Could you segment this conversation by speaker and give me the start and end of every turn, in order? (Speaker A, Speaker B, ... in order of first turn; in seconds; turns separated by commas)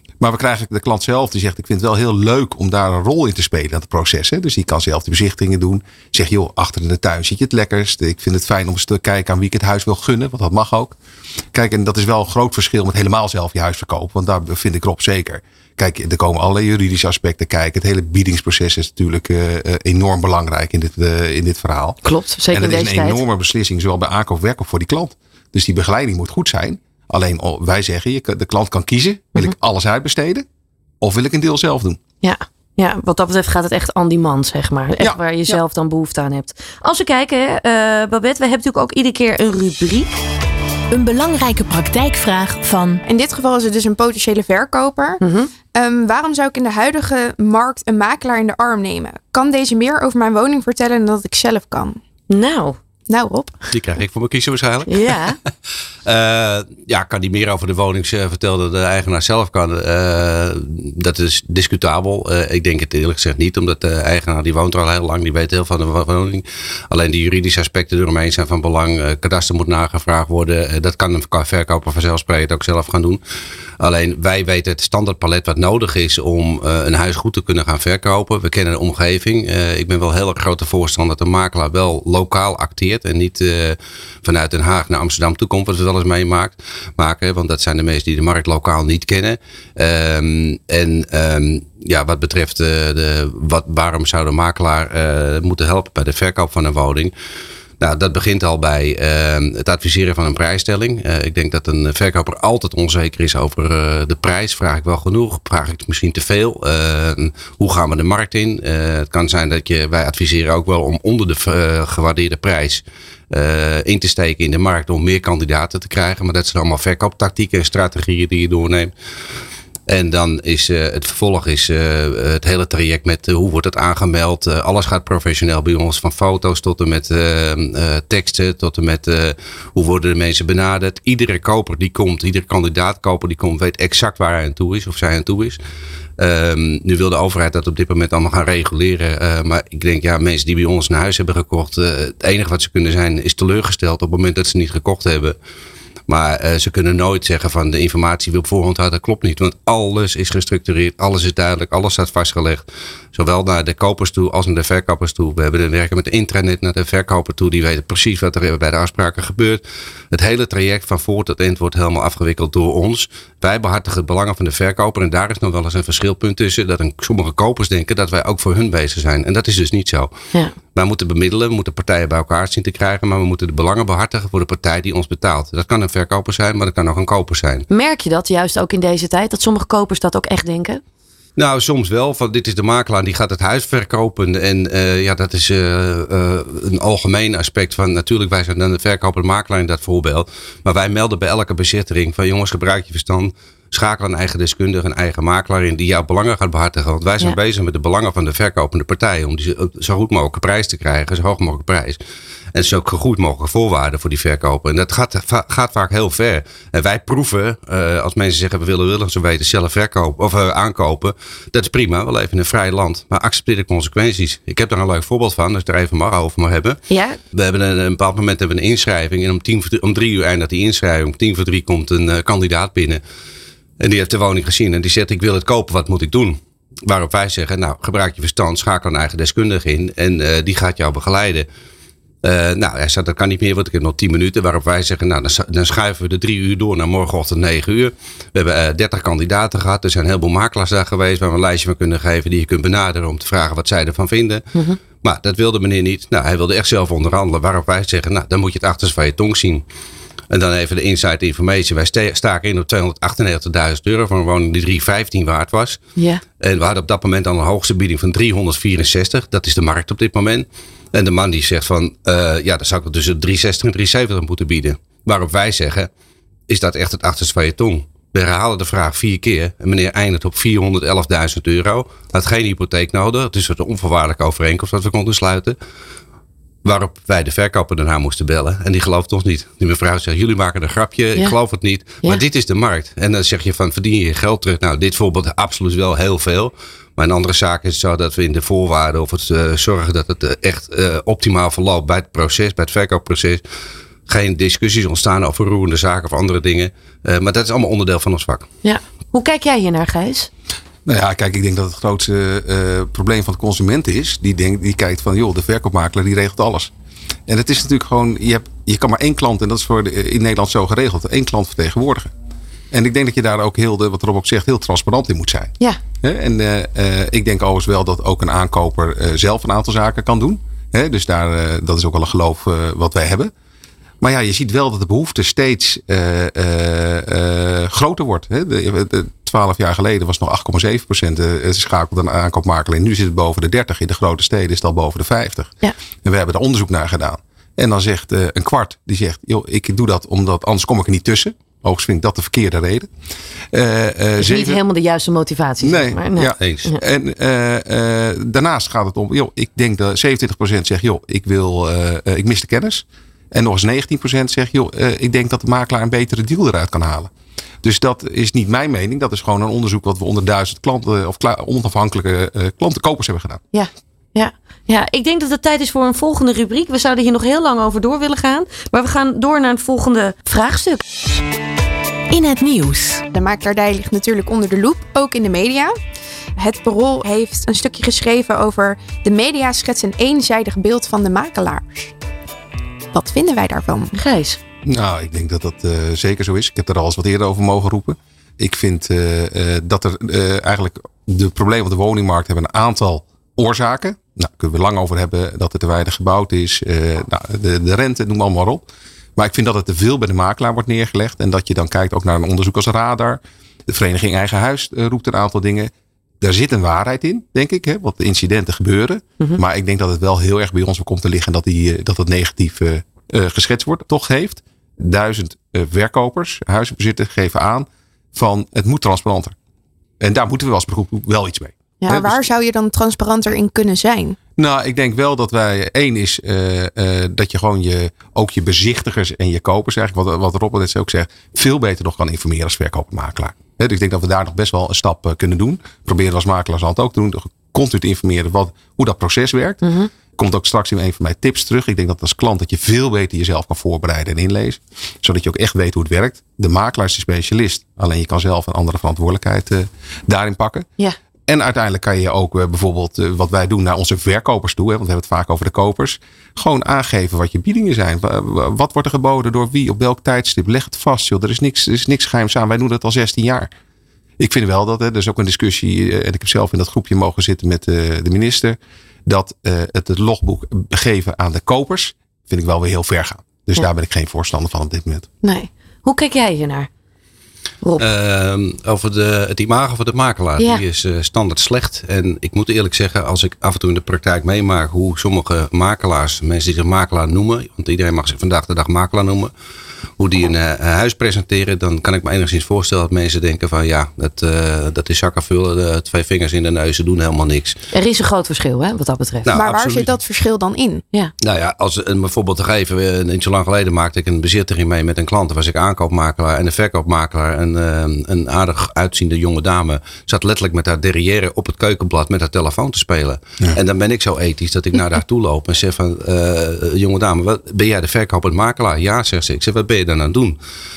Speaker A: 0.2-11.0, Speaker A: 11.5-22.0, Speaker B: 22.0-23.2, Speaker A: 22.5-30.5, Speaker A: 31.0-32.0, Speaker B: 32.2-40.2, Speaker C: 40.9-43.0, Speaker D: 43.1-45.2, Speaker B: 45.2-45.5, Speaker D: 45.7-52.0, Speaker B: 52.3-52.8, Speaker D: 53.1-53.6, Speaker E: 53.7-55.3, Speaker B: 54.9-55.4, Speaker E: 56.1-73.2, Speaker E: 73.8-97.1, Speaker E: 97.8-118.9, Speaker E: 119.9-135.6, Speaker E: 136.2-145.4, Speaker E: 146.1-170.1, Speaker E: 170.7-177.7, Speaker B: 177.7-180.8, Speaker E: 181.4-202.0, Speaker E: 202.5-216.8, Speaker B: 216.9-217.2, Speaker E: 217.3-223.0, Speaker E: 223.8-231.5, Speaker E: 232.2-249.7, Speaker E: 250.3-255.8, Speaker E: 256.4-265.9, Speaker E: 266.5-275.6, Speaker E: 276.6-293.4, Speaker E: 294.1-298.5, Speaker B: 298.6-300.3, Speaker A: 300.9-306.7, Speaker A: 307.3-312.1, Speaker A: 312.7-315.5, Speaker A: 316.0-323.3, Speaker A: 324.0-335.5, Speaker A: 336.1-342.9, Speaker A: 343.5-344.6, Speaker B: 344.2-346.8, Speaker A: 345.6-357.1, Speaker E: 346.4-346.7, Speaker A: 357.6-363.4, Speaker B: 363.5-371.2, Speaker C: 372.1-373.1, Speaker D: 373.1-375.7, Speaker D: 376.4-381.9, Speaker D: 382.9-383.9, Speaker B: 383.9-384.4, Speaker A: 384.6-398.6, Speaker A: 399.2-419.4, Speaker A: 420.0-422.2, Speaker D: 421.9-424.2, Speaker A: 424.4-450.7, Speaker B: 439.6-439.9, Speaker A: 451.3-463.5, Speaker A: 464.2-475.1, Speaker B: 475.2-476.7, Speaker E: 477.8-489.3, Speaker E: 490.0-497.6, Speaker B: 497.7-499.3, Speaker E: 499.2-500.0, Speaker D: 499.3-500.8, Speaker E: 501.2-520.4